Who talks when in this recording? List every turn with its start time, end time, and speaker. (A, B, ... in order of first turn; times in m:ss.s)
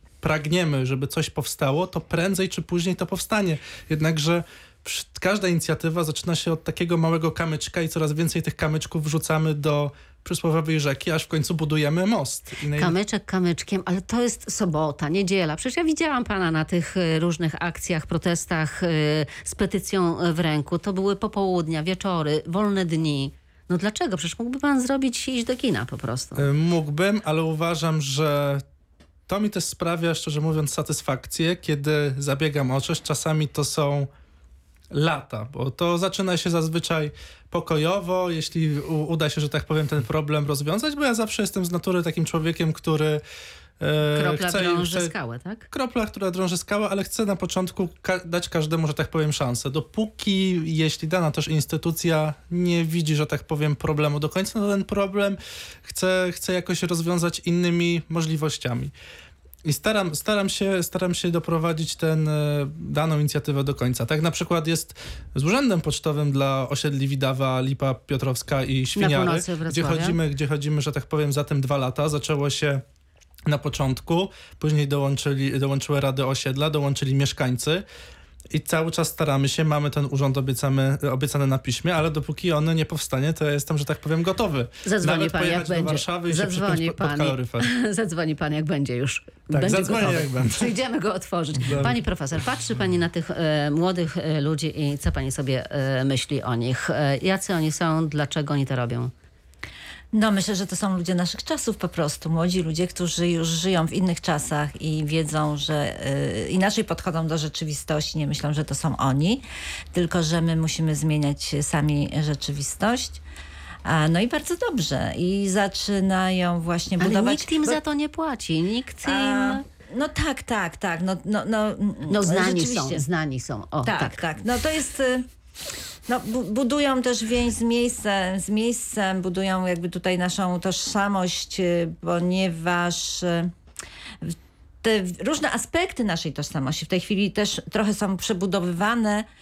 0:00.2-0:13.0 A
0:12.7-0:26.5 B
0:26.4-0:28.6 A
0:29.3-0:34.1 A
0:34.9-0:43.2 A
0:43.8-0:45.1 A
0:44.1-0:45.7 B
0:45.7-0:58.9 A
0:59.6-1:12.8 A
1:09.0-1:10.2 B
1:13.5-1:17.8 A
1:18.5-1:27.7 A
1:24.8-1:39.1 B
1:29.5-1:30.8 A
1:31.6-1:32.0 A
1:40.1-1:53.2 C
1:53.8-1:57.8 C
1:57.0-1:59.6 B
1:59.0-2:03.0 C
2:02.1-2:04.2 B
2:03.8-2:05.3 C
2:06.1-2:13.5 C
2:14.2-2:19.3 C